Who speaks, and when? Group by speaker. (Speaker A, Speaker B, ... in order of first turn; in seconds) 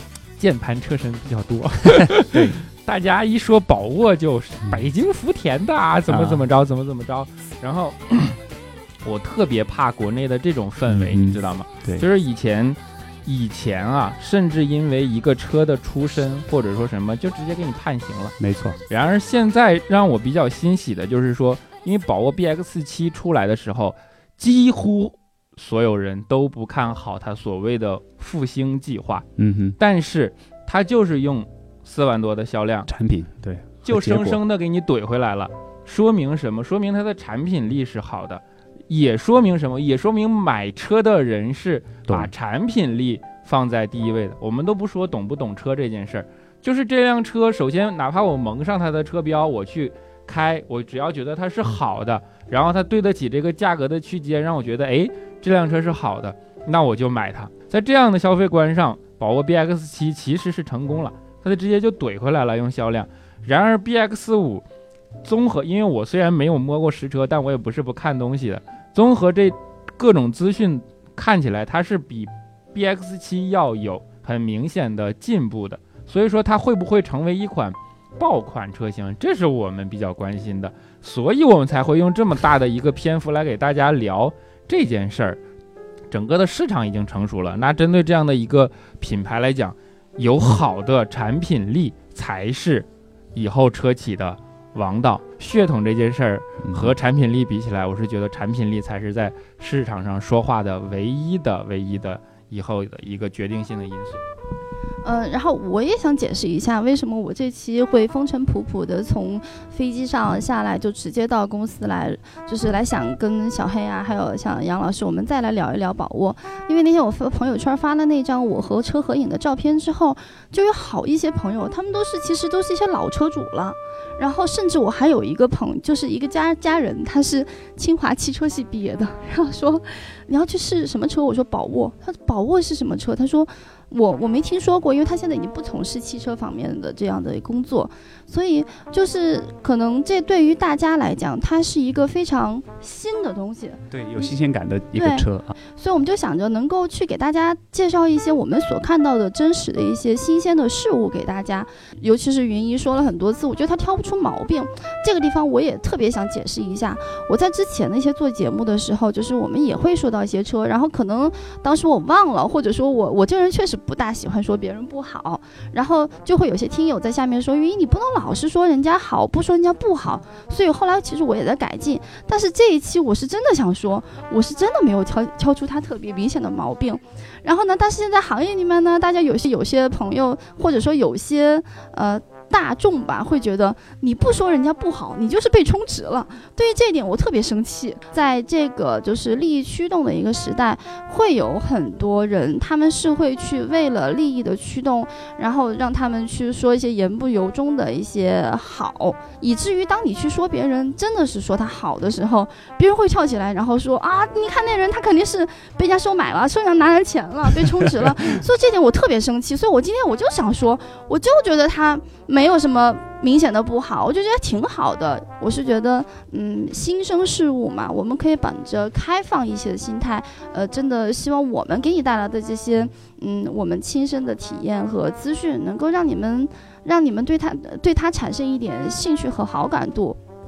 Speaker A: 0.4-8.4, 9.0-18.3, 18.9-29.2, 29.8-32.9, 33.9-64.6, 65.2-85.4, 86.1-104.2
Speaker B: 2.0-2.6, 6.1-6.4, 10.9-12.1, 18.4-18.8, 29.4-29.8, 32.9-34.4, 96.6-96.9, 143.9-145.5
Speaker C: 105.0-144.3, 144.9-230.2